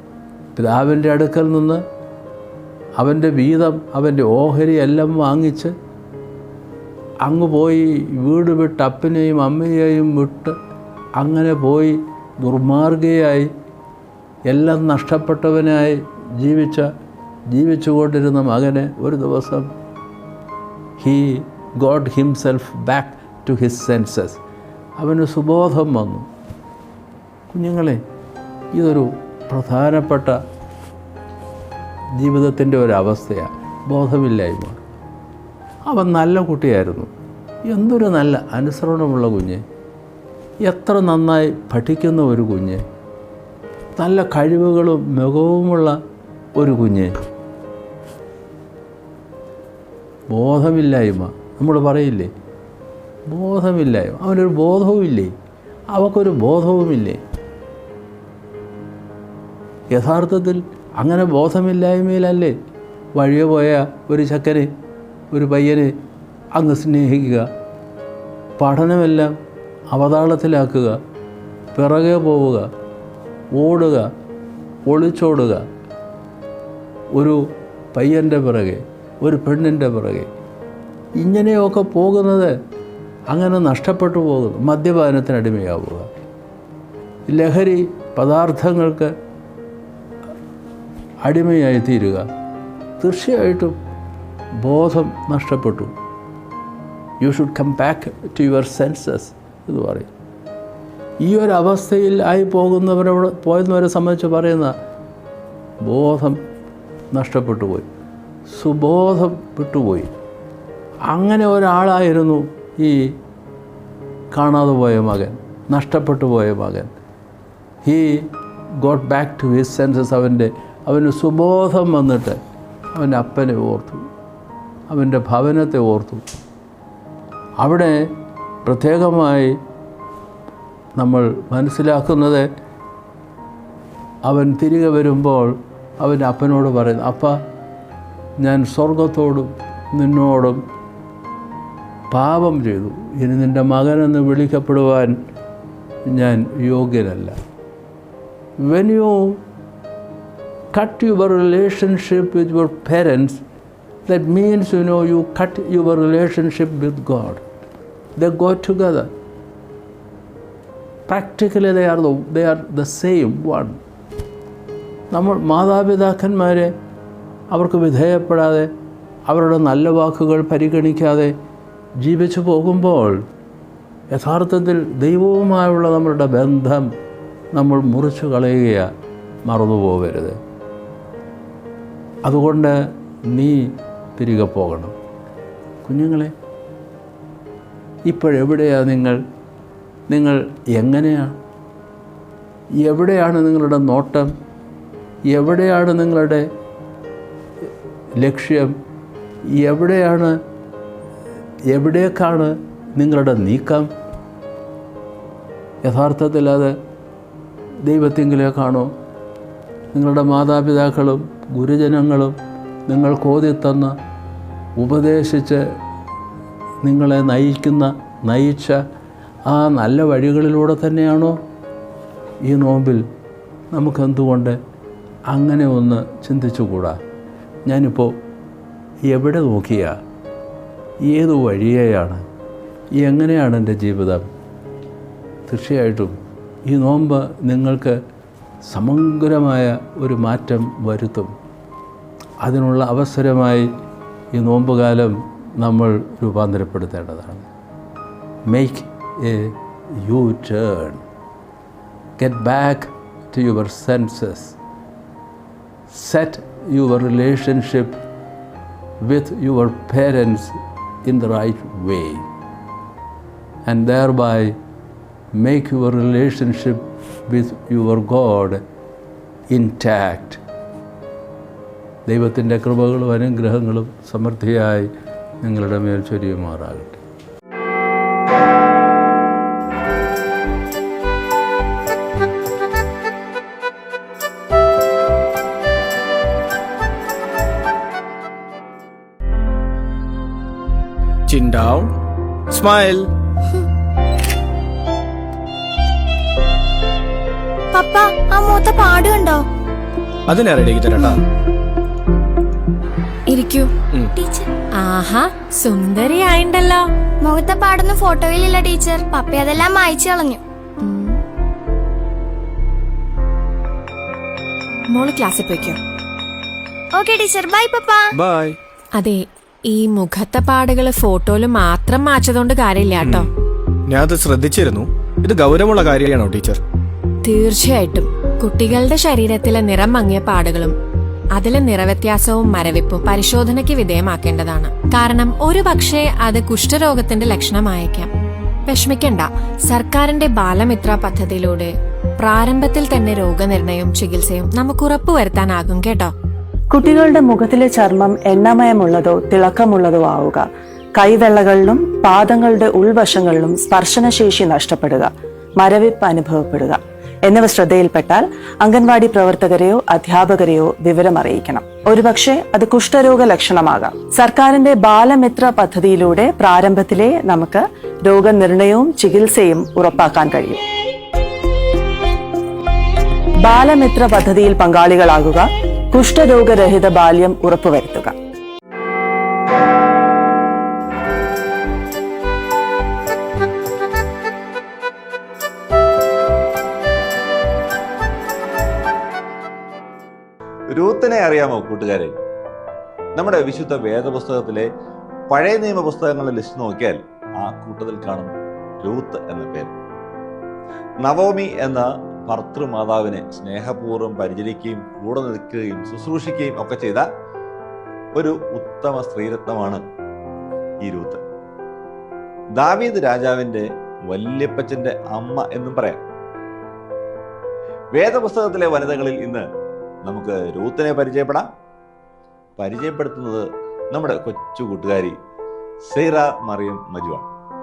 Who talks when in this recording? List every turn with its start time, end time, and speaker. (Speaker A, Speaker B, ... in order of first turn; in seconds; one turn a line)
Speaker A: 0.6-1.8
Speaker A: 3.0-5.7
Speaker A: 7.2-10.5
Speaker A: 11.2-13.5
Speaker A: 14.5-16.9
Speaker A: 17.5-19.7
Speaker A: 21.0-24.4
Speaker A: 25.0-26.3
Speaker A: 27.5-28.0
Speaker A: 28.7-30.4
Speaker A: 32.2-34.8
Speaker A: 35.9-37.1
Speaker A: 37.6-39.6
Speaker A: 40.6-42.8
Speaker A: 44.0-46.0
Speaker A: 46.5-47.1
Speaker A: 50.3-52.3
Speaker A: 53.3-55.3
Speaker A: 55.9-57.2
Speaker A: 59.9-62.5
Speaker A: 63.1-64.7
Speaker A: 65.3-65.9
Speaker A: 66.5-67.5
Speaker A: 68.6-69.3
Speaker A: 69.9-71.0
Speaker A: 71.7-72.7
Speaker A: 73.5-74.1
Speaker A: 74.8-75.6
Speaker A: 77.1-77.4
Speaker A: 77.9-80.3
Speaker A: 81.2-82.5
Speaker A: 83.3-86.1
Speaker A: 87.3-89.1
Speaker A: 91.2-92.2
Speaker A: 93.0-93.7
Speaker A: 94.6-95.9
Speaker A: 97.2-100.1
Speaker A: 101.2-104.7
Speaker A: 105.8-106.4
Speaker A: 107.1-107.9
Speaker A: 108.5-110.1
Speaker A: 111.1-113.2
Speaker A: 114.3-116.9
Speaker A: 117.8-118.3
Speaker A: 118.8-122.4
Speaker A: 122.9-124.0
Speaker A: 124.9-126.2
Speaker A: 127.6-128.0
Speaker A: 128.6-129.5
Speaker A: 131.0-132.5
Speaker A: 134.2-137.4
Speaker A: 138.4-140.6
Speaker A: 142.1-145.2
Speaker A: 146.1-147.3
Speaker A: 148.6-149.4
Speaker A: 150.7-153.4
Speaker A: 154.1-157.4
Speaker A: 158.2-159.1
Speaker A: 161.1-163.8
Speaker A: 165.1-166.7
Speaker A: 167.5-168.7
Speaker A: 169.3-171.3
Speaker A: 172.0-173.2
Speaker A: 174.1-176.9
Speaker A: 177.5-178.9
Speaker A: 179.4-180.4
Speaker A: 182.2-184.9
Speaker A: 185.8-186.3
Speaker A: 188.1-189.2
Speaker A: 190.1-191.3
Speaker A: 192.8-194.3
Speaker A: 195.3-196.4
Speaker A: 198.2-198.7
Speaker A: 199.5-200.4
Speaker A: 201.7-203.9
Speaker A: 205.8-206.7
Speaker A: 207.8-208.9
Speaker A: 209.9-212.3
Speaker A: 212.9-213.9
Speaker A: 214.8-215.6
Speaker A: 216.8-218.8
Speaker A: 219.5-221.4
Speaker A: 222.4-223.0
Speaker A: 223.7-224.6
Speaker A: 225.3-227.0
Speaker A: 227.7-228.1
Speaker A: 229.1-229.9
Speaker A: 231.1-232.2
Speaker A: 233.0-234.2
Speaker A: 235.5-236.1
Speaker A: 236.7-238.0
Speaker A: 238.7-241.3
Speaker A: 242.4-243.7
Speaker A: 244.3-247.5
Speaker A: 248.5-251.0
Speaker A: 252.2-254.6
Speaker A: 255.9-258.0
Speaker A: 259.0-262.2
Speaker A: 263.6-264.5
Speaker A: 265.4-268.6
Speaker A: 269.5-270.4
Speaker A: 272.1-274.9
Speaker A: 275.4-277.0
Speaker B: 291.3-291.9
Speaker B: 292.5-293.1
Speaker C: 297.7-299.4
Speaker B: 300.3-301.2
Speaker D: 303.3-303.7
Speaker C: 304.1-304.5
Speaker D: 304.8-306.8
Speaker C: 307.2-310.4
Speaker D: 310.8-311.2
Speaker D: 314.9-315.8
Speaker C: 316.9-318.1
Speaker B: 318.2-318.6
Speaker D: 319.0-323.3
Speaker B: 323.9-326.6
Speaker D: 327.2-330.7
Speaker D: 331.3-338.1
Speaker D: 338.7-341.7
Speaker D: 342.2-346.1
Speaker E: 346.7-370.6
Speaker E: 373.4-378.1
Speaker F: 390.7-392.2
Speaker F: 393.1-394.6
Speaker F: 395.3-399.7
Speaker F: 401.0-407.1
Speaker F: 408.1-409.8
Speaker F: 410.8-411.2
Speaker F: 412.5-416.0
Speaker F: 417.9-419.4
Speaker F: 420.0-421.5
Speaker F: 422.6-425.1
Speaker F: 425.9-427.3